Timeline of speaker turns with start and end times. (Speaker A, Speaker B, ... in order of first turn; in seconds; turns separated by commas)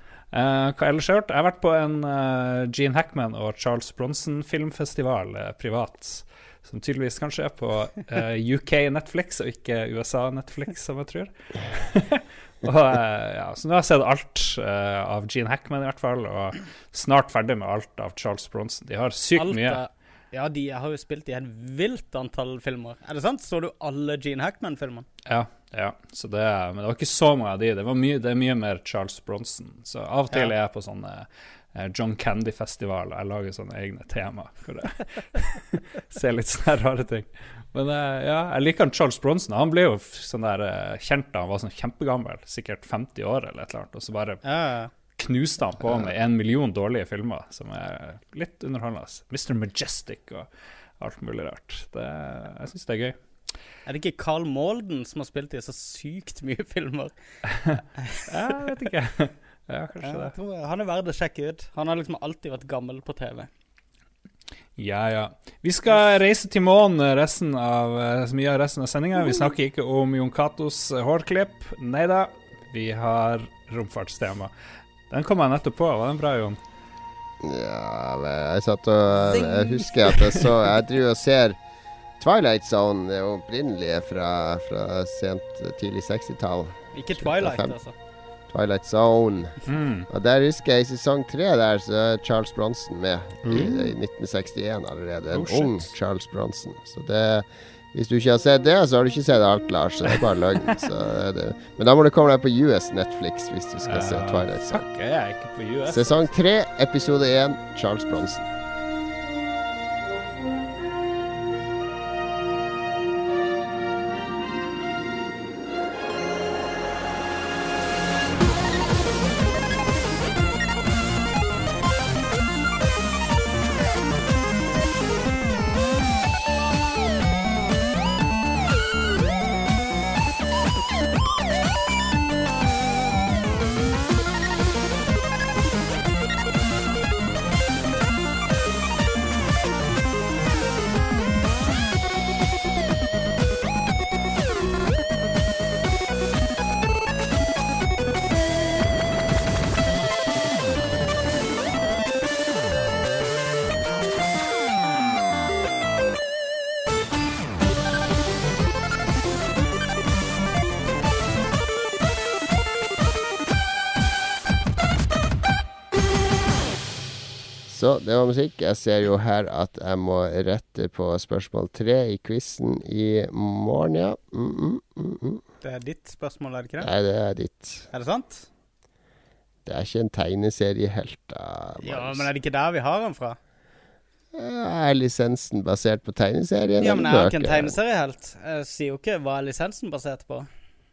Speaker A: 0.3-19.8, Speaker B: 19.3-25.1, Speaker A: 25.2-44.4, Speaker B: 44.4-44.9, Speaker A: 45.1-50.5, Speaker A: 51.0-53.2, Speaker B: 53.9-57.1, Speaker A: 57.6-60.3, Speaker B: 58.0-58.3, Speaker B: 60.0-63.5, Speaker A: 64.8-74.5, Speaker A: 75.1-76.6, Speaker C: 77.4-81.6, Speaker B: 79.2-80.4, Speaker C: 82.2-87.8, Speaker B: 86.9-87.9, Speaker C: 88.5-104.9, Speaker A: 89.7-90.1, Speaker A: 93.4-93.8, Speaker A: 95.3-95.9, Speaker A: 103.8-106.3, Speaker C: 105.9-108.5, Speaker C: 167.7-175.4, Speaker B: 175.6-176.9, Speaker C: 176.8-177.8, Speaker B: 177.9-178.5, Speaker C: 179.7-182.3, Speaker B: 181.8-183.4, Speaker C: 184.3-187.7, Speaker B: 186.8-190.5